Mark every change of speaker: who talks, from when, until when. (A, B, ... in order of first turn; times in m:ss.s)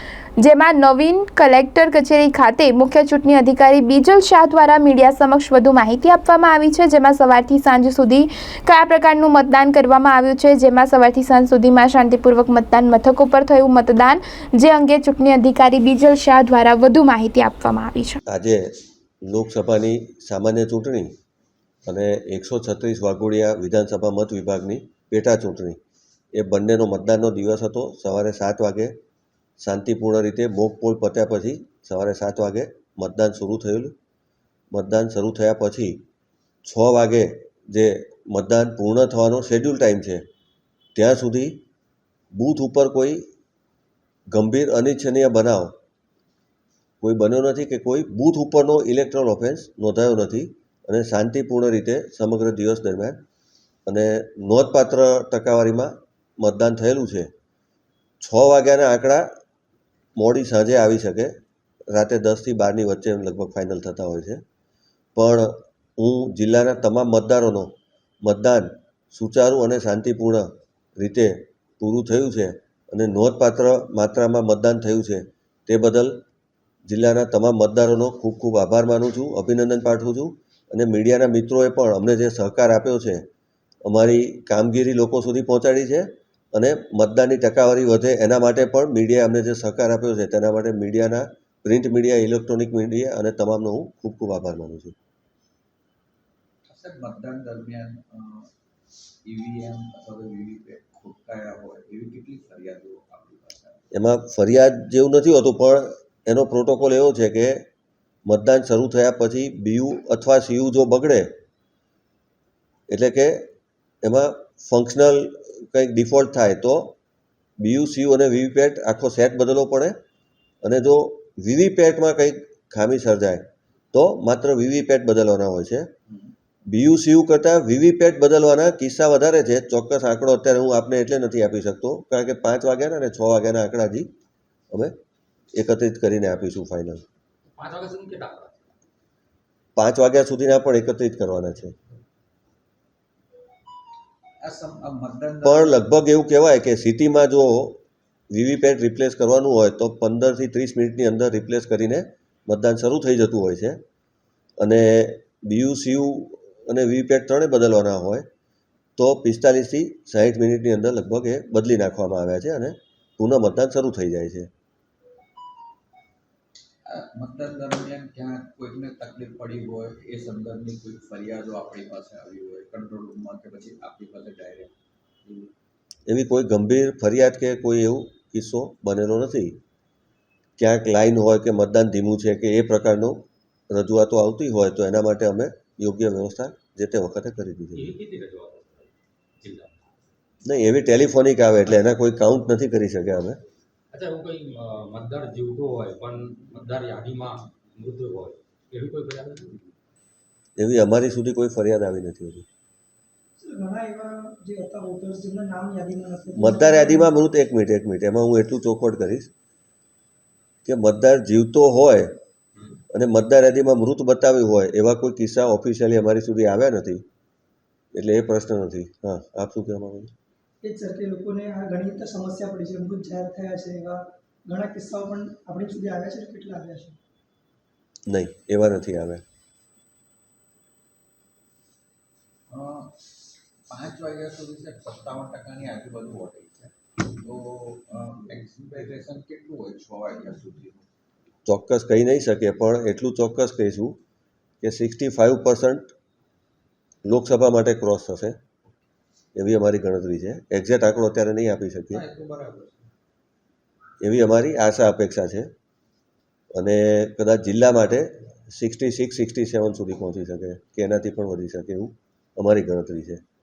0:00.4-0:18.2 A
0:18.3-0:18.7 B
0:19.2-0:21.1 B
0:21.8-0:25.8 B
0:26.3-0:29.0 B
0:29.6-0:33.9 B
0:34.7-0:36.0 B
0:36.6-0:40.2 B
0:41.0-0:41.6 B
0:42.3-0:43.2 B
0:44.3-0:45.7 B
0:47.0-0:53.2 B
0:53.9-0:57.3 B
0:58.2-0:59.3 B
1:00.2-1:01.3 B
1:01.9-1:04.4 B
1:05.2-1:16.2 B
1:16.9-1:23.2 B
1:23.9-1:35.0 B
1:36.6-1:38.5 C
1:39.2-1:43.8 C
1:43.9-1:47.6 B
1:48.3-1:51.3 B
1:52.9-1:53.5 B
1:54.0-1:57.0 B
1:57.6-2:00.0 B
2:00.6-2:05.9 B
2:06.1-2:06.3 C
2:06.7-2:14.1 B
2:15.5-2:17.0 B
2:17.6-2:18.7 D
2:19.8-2:21.7 B
2:24.4-2:25.8 C
2:25.4-2:33.8 B
2:34.6-2:38.3 B
2:39.0-2:44.5 B
2:46.9-2:54.7 C
2:56.1-2:59.6 B
3:00.6-3:07.9 B
3:07.8-3:09.8 D
3:10.4-3:13.4 B
3:13.9-3:19.6 D
3:20.6-3:22.5 B
3:23.4-3:27.1 E
3:26.4-3:29.3 B
3:30.6-3:32.1 B
3:32.9-3:37.0 B
3:37.9-3:40.1 B
3:40.6-3:47.0 E
3:48.1-3:49.2 B
3:52.5-3:53.0 C
3:53.7-4:00.9 C
4:01.5-4:04.0 B
4:04.6-4:05.9 B
4:07.0-4:08.4 B
4:09.4-4:12.0 B
4:11.9-4:12.9 C
4:14.0-4:15.5 B
4:16.6-4:23.2 B